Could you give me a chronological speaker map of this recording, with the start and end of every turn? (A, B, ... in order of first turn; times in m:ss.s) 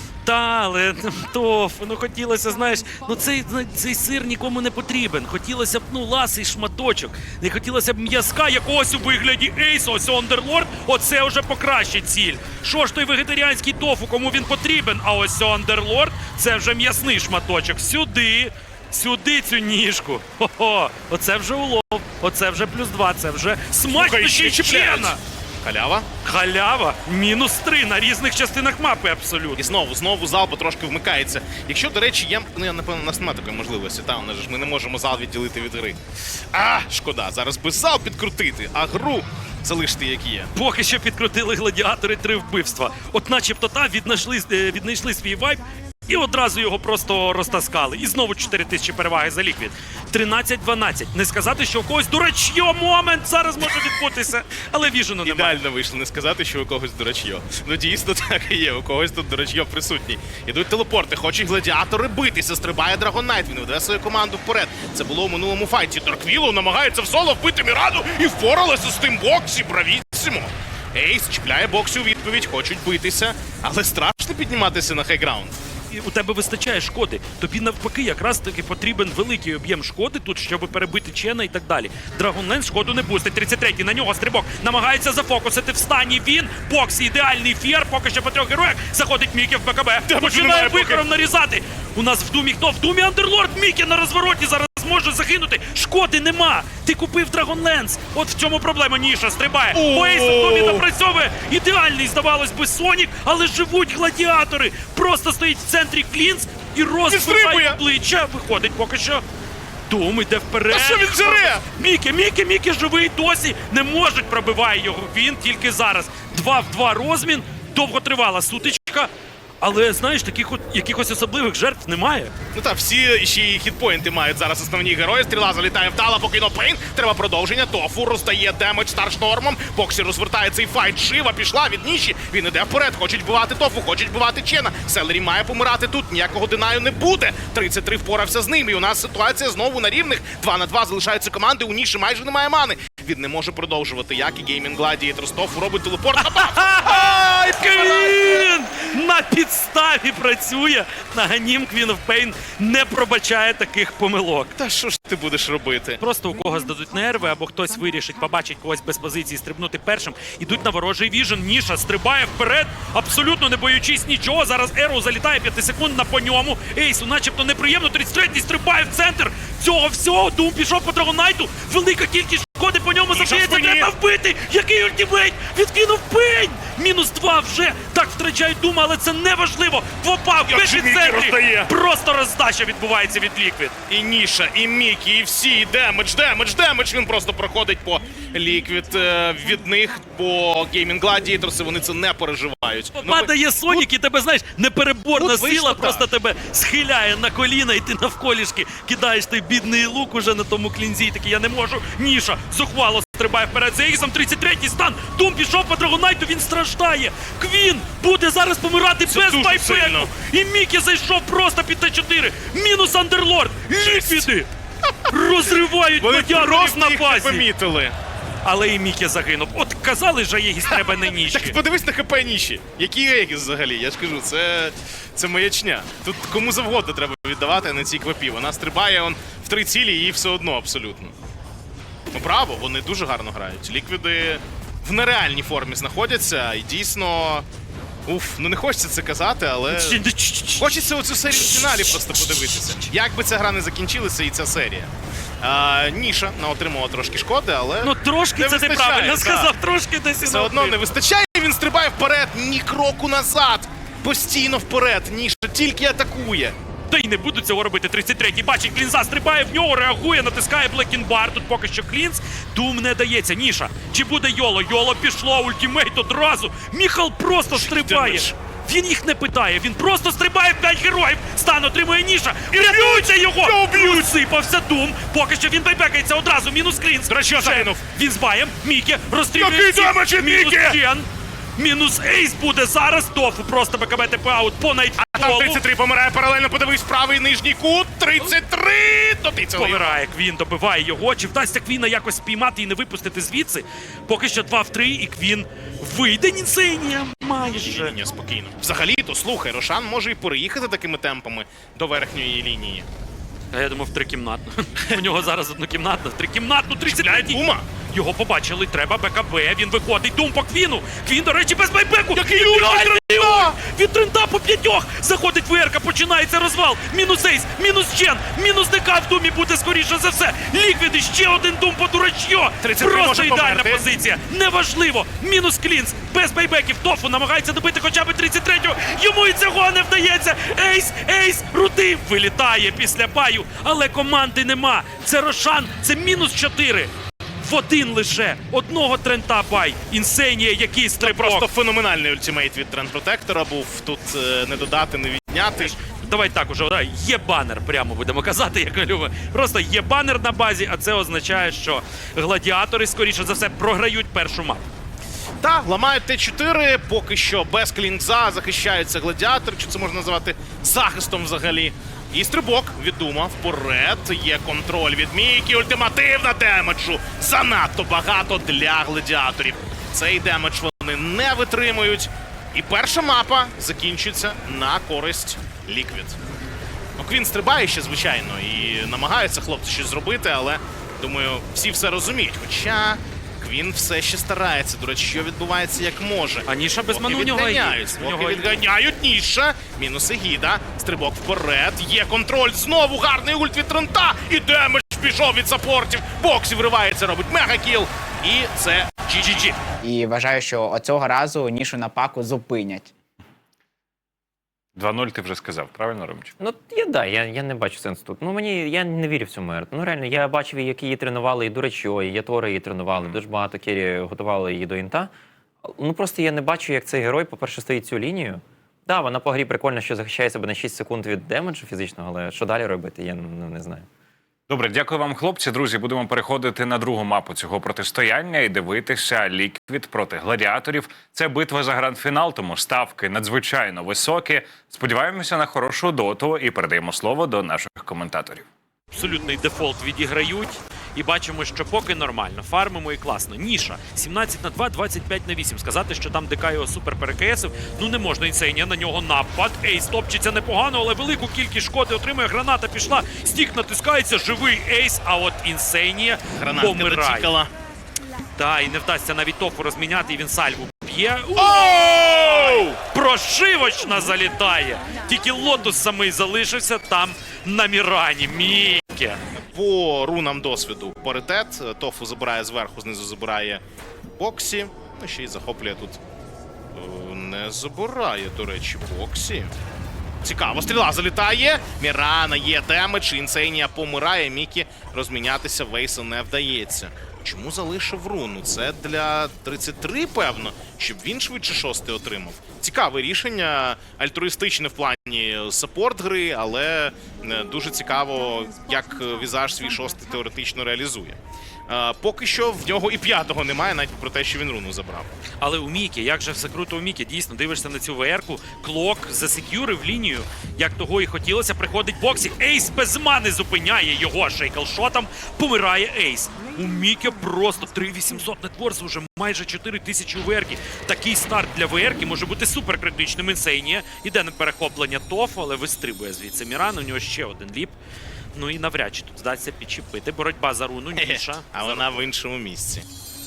0:00.2-0:25.2 A
0:23.9-0:26.1 B
0:26.2-0:29.6 A
0:29.6-0:40.5 B
0:40.5-0:55.6 A
0:55.2-1:15.6 B
1:15.9-1:49.2 A
1:30.1-1:31.0 B
1:39.7-1:40.8 B
1:47.1-1:47.8 B
1:49.9-1:59.1 A
1:50.7-1:51.6 B
1:59.6-2:02.3 A
2:02.5-2:28.5 B
2:26.2-2:34.5 A
2:34.6-2:36.0 B
2:36.0-3:03.8 A
2:53.1-2:53.9 B
3:00.5-3:01.7 B
3:03.9-3:13.8 B
3:13.0-3:34.5 A
3:15.1-3:16.1 B
3:29.1-3:30.1 B
3:33.8-3:34.3 B
3:35.1-3:37.4 A
3:36.0-3:38.0 B
3:38.4-3:41.6 A
3:40.7-3:51.1 B
3:52.1-3:57.4 B
3:58.1-4:00.0 B
3:59.7-4:00.8 A
4:00.6-4:04.9 B
4:01.3-4:01.9 A
4:05.4-4:09.5 B
4:07.8-4:10.9 A
4:10.2-4:16.6 B
4:16.9-4:45.6 A
4:27.5-4:28.3 B
4:32.5-4:34.1 B
4:37.1-4:37.8 B
4:39.4-4:40.8 B
4:45.0-4:50.0 B
4:49.5-4:58.0 A
4:57.4-5:02.9 B
5:03.5-5:07.4 A
5:06.8-5:07.6 B
5:07.9-5:36.9 A
5:12.1-5:13.6 B
5:22.6-5:23.8 B
5:37.4-5:41.5 A
5:41.0-5:45.7 B
5:45.6-5:54.6 A
5:55.4-6:16.2 B
6:17.0-6:39.6 B
6:26.5-6:28.6 A
6:39.2-6:39.5 A
6:39.8-6:42.9 C
6:44.7-6:46.3 D
6:46.4-6:55.1 E
6:55.6-7:03.8 E
7:04.5-7:18.4 D
7:18.9-7:37.3 A
7:36.4-7:37.5 B
7:38.4-7:49.2 A
7:41.4-7:42.8 B
7:49.5-7:53.6 B
7:54.2-7:56.0 B
7:56.7-7:59.5 B
8:00.2-8:25.1 B
8:25.4-8:47.7 A
8:48.3-8:52.0 A
8:51.0-8:52.8 B